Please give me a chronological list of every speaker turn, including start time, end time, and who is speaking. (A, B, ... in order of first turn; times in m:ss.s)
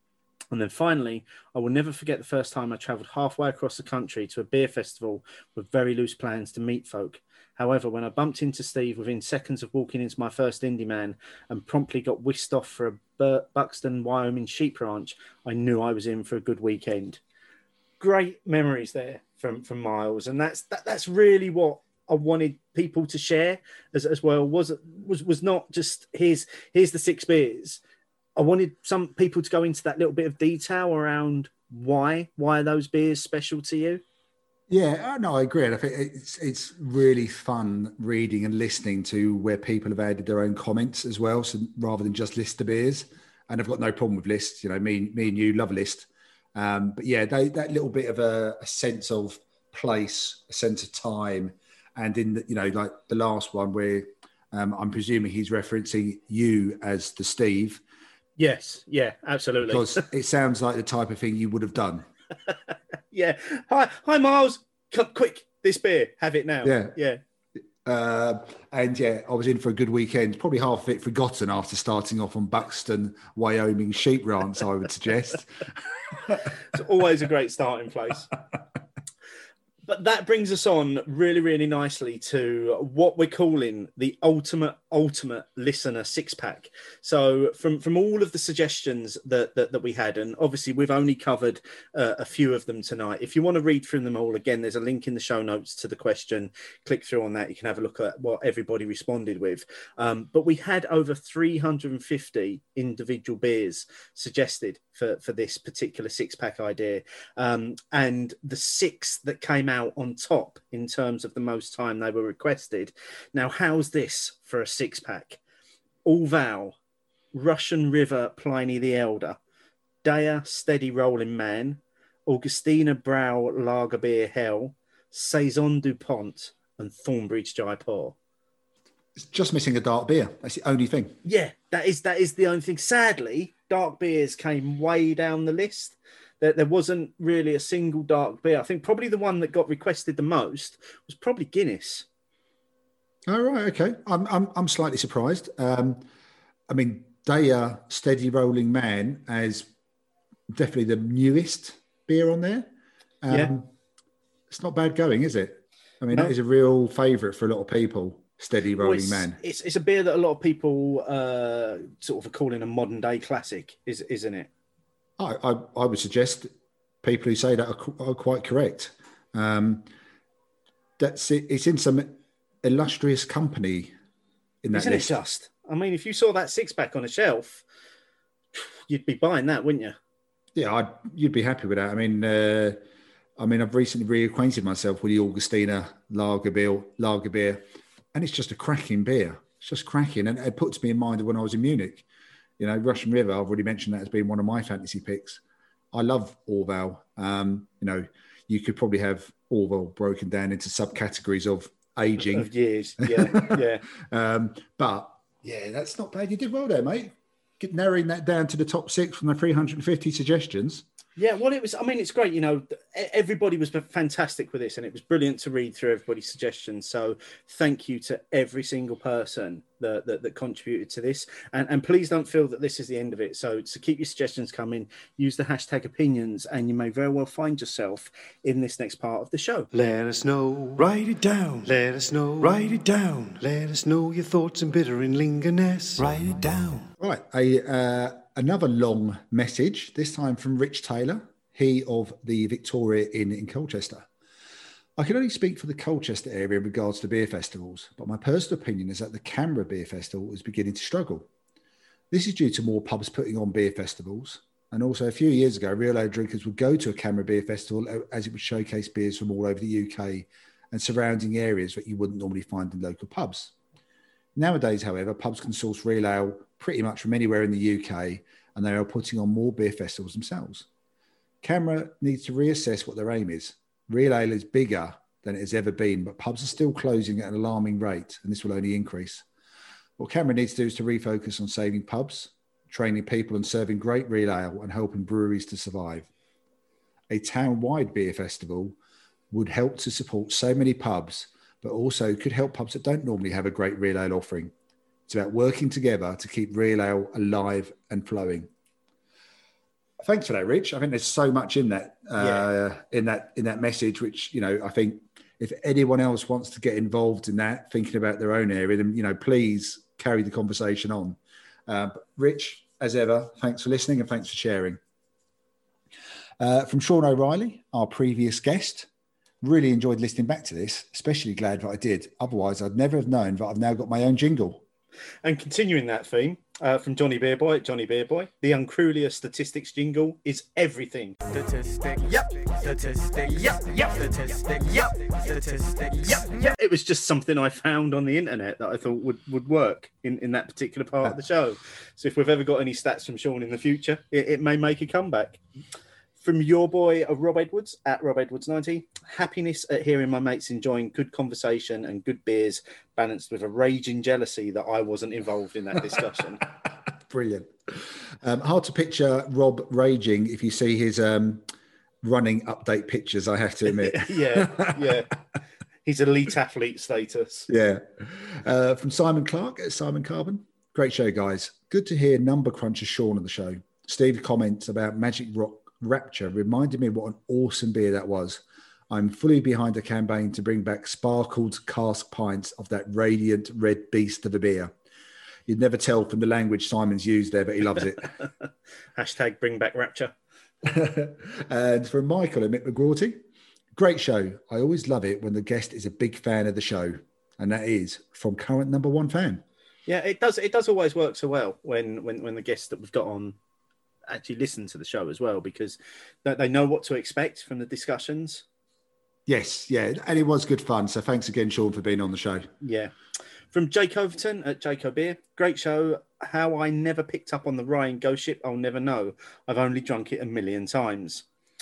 0:00.5-0:17.2 A
0:18.0-0:27.8 A
0:28.4-0:34.0 A
0:34.7-0:57.8 B
0:58.4-1:00.0 A
0:59.7-1:02.1 B
1:03.1-1:07.2 A
1:06.6-1:06.9 B
1:07.8-1:15.6 B
1:16.7-1:18.3 A
1:19.8-1:55.4 A
1:56.0-1:56.8 A
1:57.3-1:59.4 A
2:00.0-2:08.2 A
2:09.2-2:11.2 B
2:11.2-2:22.0 A
2:23.3-2:26.0 B
2:26.7-2:29.7 B
2:30.5-2:32.7 B
2:33.2-2:33.7 B
2:34.5-2:39.4 B
2:38.8-2:44.5 A
2:45.2-2:46.5 B
2:47.0-2:49.9 B
2:51.0-2:53.9 B
2:54.6-2:55.1 B
2:54.7-2:57.6 A
2:58.5-3:00.0 A
3:00.5-3:02.8 B
3:03.4-3:12.0 B
3:12.6-3:15.4 B
3:15.9-3:30.8 B
3:22.3-3:23.8 A
3:31.2-3:49.7 A
3:49.7-3:56.9 C
3:57.0-4:04.1 B
4:05.0-4:11.3 B
4:12.1-4:23.5 B
4:24.4-4:30.7 B
4:31.4-4:39.2 B
4:40.0-4:46.1 B
4:47.1-4:48.8 B
4:49.3-4:54.5 B
4:55.1-4:58.5 B
5:00.0-5:14.8 B
5:02.2-5:02.4 A
5:16.4-5:18.9 B
5:19.4-5:24.6 B
5:25.2-5:31.2 A
5:31.3-5:36.2 D
5:36.1-5:45.4 A
5:46.2-5:56.4 A
5:57.0-6:01.5 B
6:02.0-6:04.8 B
6:03.7-6:05.1 A
6:05.8-6:07.5 A
6:07.5-6:24.7 B
6:25.5-6:28.1 B
6:29.0-6:30.1 A
6:30.6-6:33.2 B
6:33.7-6:39.4 B
6:39.9-6:43.4 A
6:44.1-6:48.4 A
6:49.3-6:52.5 B
6:52.6-6:52.9 A
6:53.5-7:01.2 A